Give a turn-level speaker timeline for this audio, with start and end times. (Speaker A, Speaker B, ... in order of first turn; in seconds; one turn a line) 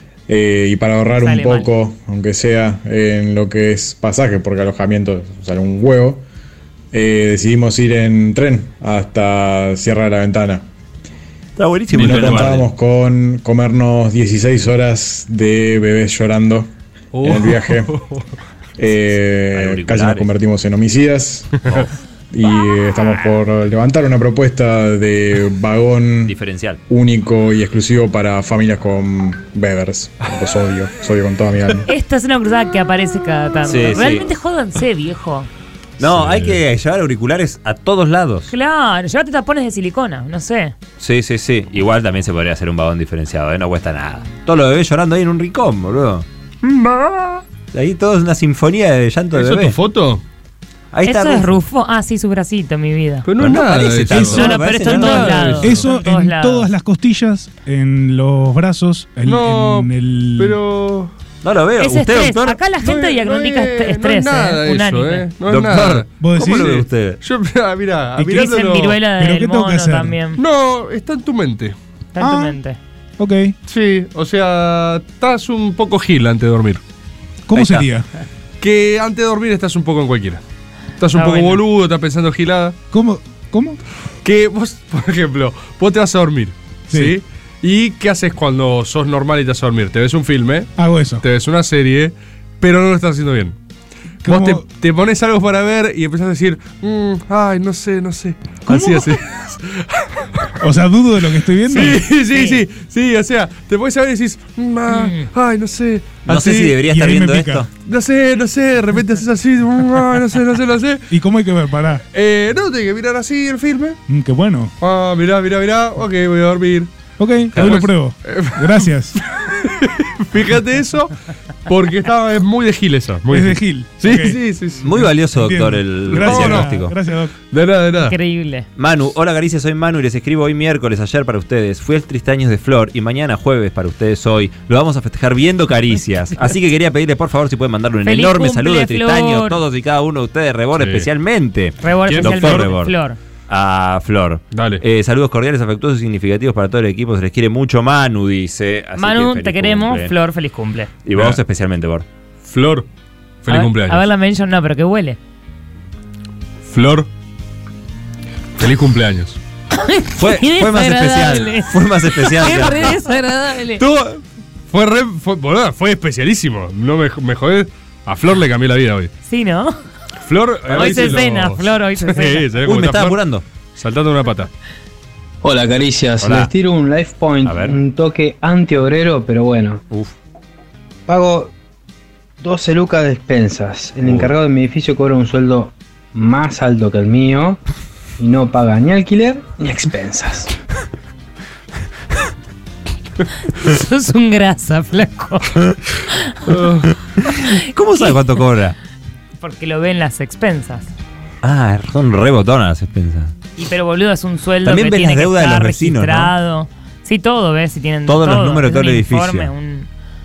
Speaker A: 0.3-6.2
Speaker B: 1.1-1.7
Speaker A: 6.9-10.6
Speaker C: 11.6-12.7
Speaker D: 11.9-12.6
Speaker A: 12.0-17.9
Speaker D: 17.1-18.2
Speaker A: 18.8-21.6
Speaker C: 19.5-20.3
Speaker A: 22.3-26.3
Speaker C: 26.2-26.8
Speaker A: 26.9-31.9
Speaker B: 31.9-35.5
Speaker C: 33.6-34.3
Speaker C: 36.0-38.5
Speaker D: 36.0-36.6
Speaker B: 38.5-40.8
Speaker C: 41.0-46.2
Speaker C: 47.7-49.8
Speaker D: 49.3-50.2
Speaker C: 50.9-51.6
Speaker B: 51.0-53.2
Speaker D: 53.2-55.7
Speaker C: 53.4-55.8
Speaker B: 54.1-56.7
Speaker E: 55.6-60.5
Speaker D: 59.2-61.1
Speaker C: 61.4-62.6
Speaker B: 61.8-65.2
Speaker D: 62.8-68.9
Speaker C: 65.5-67.2
Speaker E: 66.2-66.7
Speaker E: 68.2-68.5
Speaker B: 68.3-70.4
Speaker E: 69.1-70.2
Speaker D: 70.4-71.7
Speaker B: 72.1-72.8
Speaker E: 72.2-72.6
Speaker E: 73.2-73.5
Speaker D: 73.7-76.8
Speaker E: 77.5-78.0
Speaker C: 77.5-77.9
Speaker D: 78.6-80.4
Speaker D: 81.0-82.8
Speaker B: 81.1-81.6
Speaker E: 82.9-83.8
Speaker D: 84.2-93.5
Speaker E: 86.9-87.2
Speaker E: 90.8-91.2
Speaker E: 94.2-94.6
Speaker D: 94.2-100.5
Speaker E: 98.7-99.2
Speaker E: 100.6-102.0
Speaker D: 101.7-106.7
Speaker B: 101.7-102.6
Speaker B: 104.9-105.3
Speaker C: 106.2-107.7
Speaker E: 106.8-107.7
Speaker D: 107.8-111.0
Speaker E: 111.1-112.0
Speaker D: 112.1-114.0
Speaker E: 114.1-114.7
Speaker D: 114.8-116.9
Speaker E: 117.2-119.2
Speaker C: 117.5-117.8
Speaker D: 117.5-121.1
Speaker D: 121.7-124.8
Speaker E: 123.3-124.4
Speaker C: 124.8-126.9
Speaker E: 124.9-127.3
Speaker D: 126.1-126.7
Speaker D: 127.5-128.2
Speaker B: 128.1-128.7
Speaker C: 128.8-142.9
Speaker B: 138.0-139.6
Speaker D: 140.8-141.1
Speaker B: 141.8-143.2
Speaker D: 142.1-142.7
Speaker C: 143.5-150.1
Speaker D: 144.5-144.8
Speaker B: 149.0-150.9
Speaker C: 151.0-152.0
Speaker D: 152.4-152.8
Speaker D: 153.4-154.0
Speaker B: 153.5-155.2
Speaker D: 156.6-157.1
Speaker D: 158.6-159.4
Speaker B: 159.8-163.8
Speaker C: 160.2-163.0
Speaker D: 163.8-169.1
Speaker B: 169.2-169.7
Speaker D: 170.2-173.2
Speaker C: 170.7-171.1
Speaker B: 170.7-172.4
Speaker C: 172.6-173.4
Speaker D: 173.8-174.5
Speaker F: 175.4-179.8
Speaker C: 176.2-176.5
Speaker C: 177.4-177.8
Speaker F: 181.1-181.5
Speaker F: 182.4-187.6
Speaker D: 184.0-184.3
Speaker F: 188.2-190.5
Speaker B: 193.6-195.6
Speaker D: 196.5-196.9
Speaker C: 197.7-198.8
Speaker B: 199.4-200.9
Speaker C: 201.4-203.3
Speaker B: 203.6-209.9
Speaker C: 204.6-206.3
Speaker C: 208.1-209.5